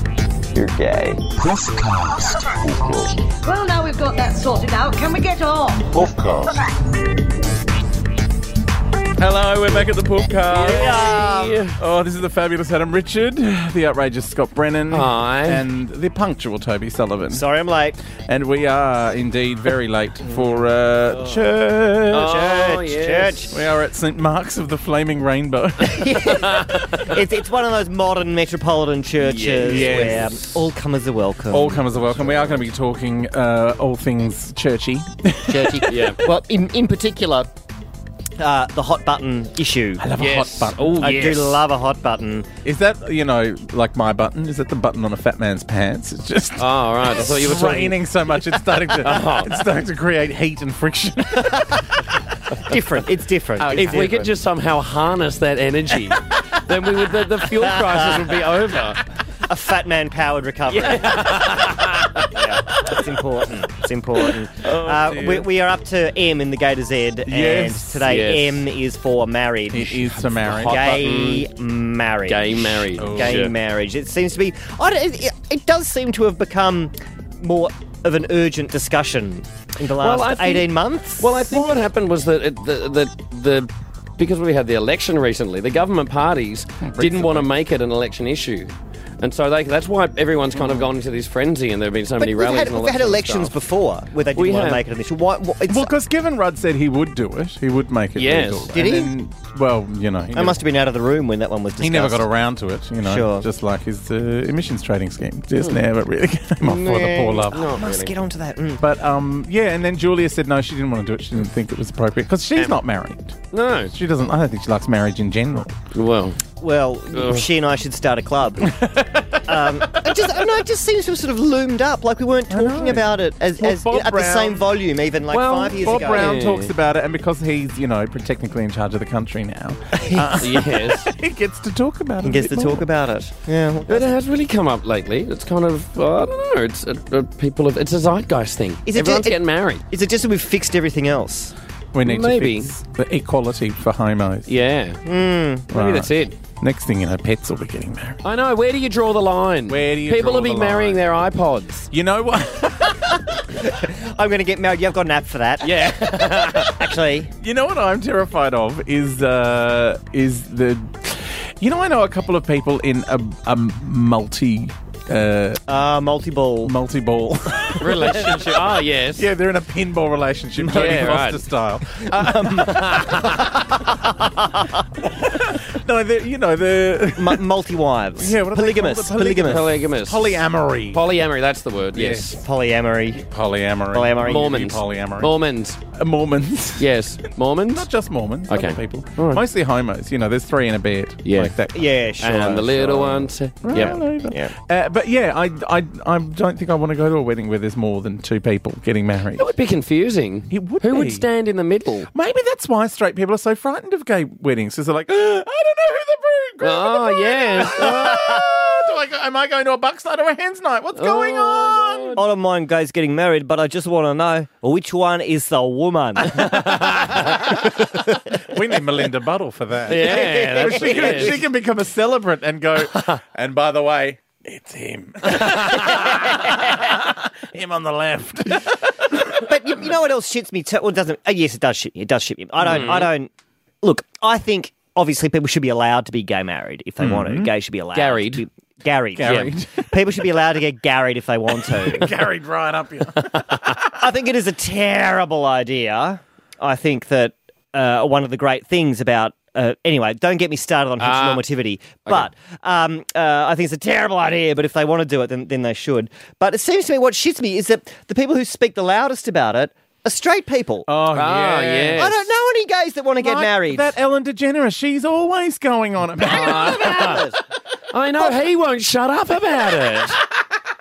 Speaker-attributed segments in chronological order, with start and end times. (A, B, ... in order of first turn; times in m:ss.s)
0:00.5-0:03.3 A
0:03.4-0:06.0 B
0:05.9-0:06.5 A
0:09.2-0:11.0 C
0:10.5-0:11.8 D
0:10.6-0:11.6 E
0:11.8-0:17.5 C
0:14.9-0:15.6 D
0:17.3-0:18.0 E
0:18.1-0:22.2 C
0:22.1-0:23.5 D
0:22.2-0:23.5 E
0:23.5-0:26.4 C
0:25.8-0:32.4 E
0:26.2-0:27.1 D
0:29.2-0:30.4 D
0:29.6-0:30.4 C
0:31.5-0:36.2 C
0:35.5-0:37.5 E
0:35.8-0:36.2 D
0:38.4-0:40.1 E
0:40.0-0:41.4 C
0:40.2-0:41.6 D
0:41.0-0:42.5 E
0:42.6-0:51.9 C
0:46.6-0:48.0 D
0:49.0-0:49.5 D
0:52.6-0:54.1 E
0:53.6-0:54.4 C
0:53.7-0:59.0 D
0:57.7-0:58.3 E
0:59.5-1:01.5 E
1:00.7-1:02.3 D
1:02.3-1:21.5 E
1:04.6-1:05.5 C
1:07.3-1:08.0 C
1:08.0-1:08.6 D
1:09.7-1:10.9 C
1:10.5-1:11.5 D
1:12.2-1:13.5 D
1:13.0-1:13.4 C
1:20.0-1:33.6 D
1:26.8-1:27.5 C
1:30.6-1:30.9 C
1:32.2-1:35.9 E
1:34.3-1:34.8 D
1:35.7-1:40.6 C
1:38.2-1:38.8 D
1:38.7-1:39.1 E
1:40.3-1:42.3 E
1:41.8-1:47.7 C
1:43.0-1:43.4 E
1:46.6-1:48.1 D
1:46.7-1:48.8 E
1:48.8-1:53.4 C
1:53.5-1:53.9 D
1:53.9-1:55.8 C
1:55.9-1:56.4 D
1:56.6-1:58.8 E
1:57.1-1:57.5 D
1:58.6-1:59.5 C
1:59.4-2:06.4 E
2:02.5-2:04.7 C
2:05.3-2:06.7 D
2:05.8-2:12.9 C
2:10.0-2:10.4 E
2:10.4-2:11.1 D
2:12.2-2:14.1 E
2:13.9-2:19.8 D
2:18.8-2:21.5 E
2:21.9-2:24.5 C
2:22.0-2:22.7 D
2:24.5-2:25.0 D
2:25.0-2:25.7 E
2:25.7-2:26.4 D
2:25.7-2:28.2 C
2:28.2-2:31.9 D
2:29.7-2:31.0 C
2:31.9-2:33.2 C
2:33.5-2:37.3 E
2:35.6-2:36.7 D
2:37.4-2:45.6 C
2:45.7-2:46.7 E
2:46.6-2:53.5 C
2:47.8-2:49.3 D
2:50.6-2:51.4 D
2:52.0-2:54.8 E
2:52.6-2:53.4 D
2:55.0-2:57.4 C
2:57.2-2:59.6 E
2:58.2-3:01.0 C
2:59.4-3:02.4 D
3:01.9-3:02.4 C
3:02.4-3:03.2 E
3:03.3-3:05.4 C
3:03.9-3:04.6 E
3:04.2-3:05.8 D
3:05.9-3:06.9 C
3:06.8-3:07.9 D
3:07.7-3:19.4 C
3:08.5-3:09.4 D
3:11.2-3:11.5 D
3:11.7-3:12.7 E
3:12.2-3:14.0 D
3:14.3-3:14.5 E
3:19.4-3:22.1 D
3:20.5-3:21.3 C
3:22.1-3:32.2 C
3:26.6-3:28.3 D
3:30.9-3:32.2 D
3:32.2-3:37.3 E
3:36.5-3:37.4 D
3:38.4-3:49.4 C
3:39.9-3:41.4 D
3:39.9-3:41.4 E
3:45.4-3:46.2 D
3:49.4-3:53.3 E
3:52.6-3:53.1 D
3:53.8-4:02.1 E
3:57.0-3:57.5 C
3:57.9-3:58.4 D
3:59.1-4:00.0 C
3:59.2-3:59.5 D
4:01.7-4:03.9 C
4:03.3-4:03.7 D
4:03.8-4:20.9 E
4:11.0-4:11.4 D
4:20.9-4:22.1 C
4:21.1-4:22.2 D
4:21.9-4:24.0 E
4:23.2-4:27.3 C
4:26.2-4:27.3 D
4:26.4-4:27.4 E
4:27.9-4:30.2 D